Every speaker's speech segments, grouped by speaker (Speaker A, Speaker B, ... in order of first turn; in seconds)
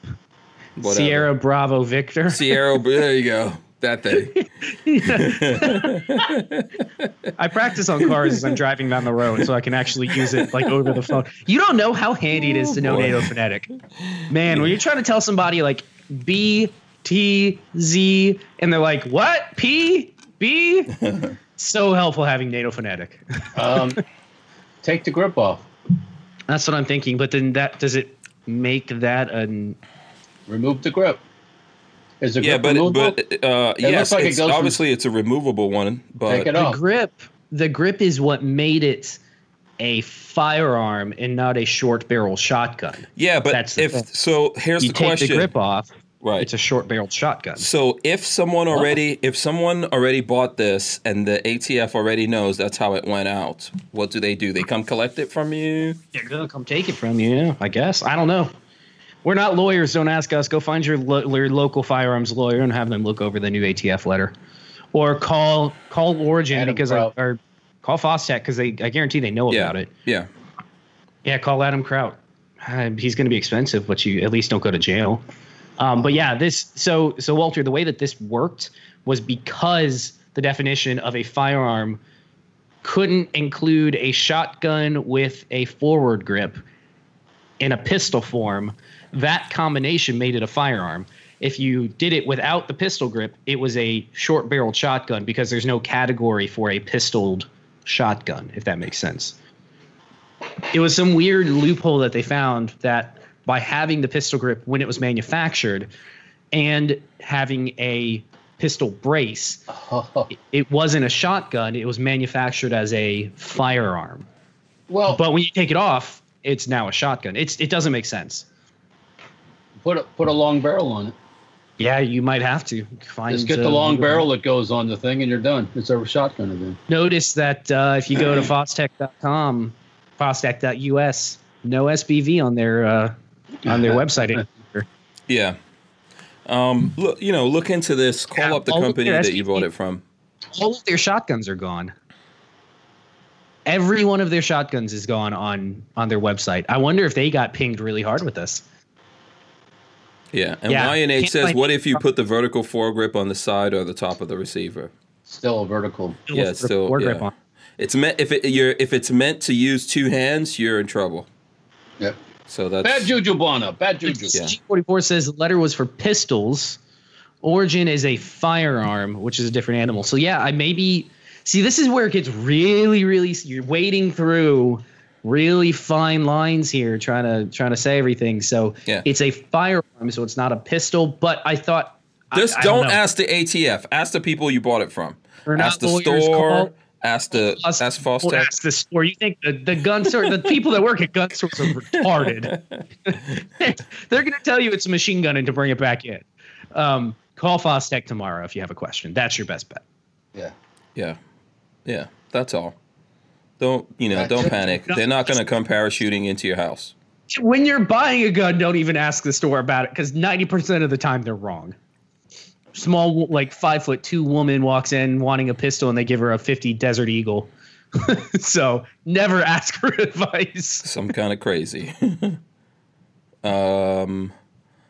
Speaker A: 0.8-2.4, 4.1-6.2, 7.4-13.7, 14.3-21.0, 21.6-23.9, 26.5-29.8, 36.5-39.2, 39.8-44.1, 44.8-45.9, 46.4-47.7, 56.1-58.5, 59.2-64.3, 64.9-69.9, 71.2-75.2, 75.8-82.0, 82.8-86.6, 87.6-99.4, 100.7-105.9, 106.5-109.6, 110.3-114.3, 115.1-118.5, 121.8-124.3, 126.9-133.1, 133.6-134.9, 138.3-139.7, 140.5-141.9, 143.7-148.6, 150.7-152.0, 156.3-157.3, 164.1-166.8, 167.4-183.0, 185.4-186.7, 187.3-199.8, 204.7-205.0, 207.3-211.8, 212.7-220.9
Speaker B: 0.8-1.3, 2.3-4.4, 5.0-7.3, 8.2-8.5, 10.1-10.6, 12.7-13.2, 32.4-36.5, 43.1-45.5, 46.2-46.5, 47.6-56.0, 69.5-70.3, 135.3-135.6, 136.4-140.0, 150.3-154.9, 156.3-161.3, 162.5-163.1, 182.3-188.5, 192.0-192.8, 201.8-202.8, 203.6-206.9, 220.8-222.4, 223.4-224.3
Speaker C: 23.5-24.0, 24.8-25.6, 30.5-31.2, 32.2-33.2, 33.8-34.8, 36.3-36.8, 66.5-67.1, 109.7-110.3, 114.9-115.2, 119.8-121.1, 123.3-126.8, 133.7-134.0, 155.3-156.2, 162.8-164.4, 204.1-204.5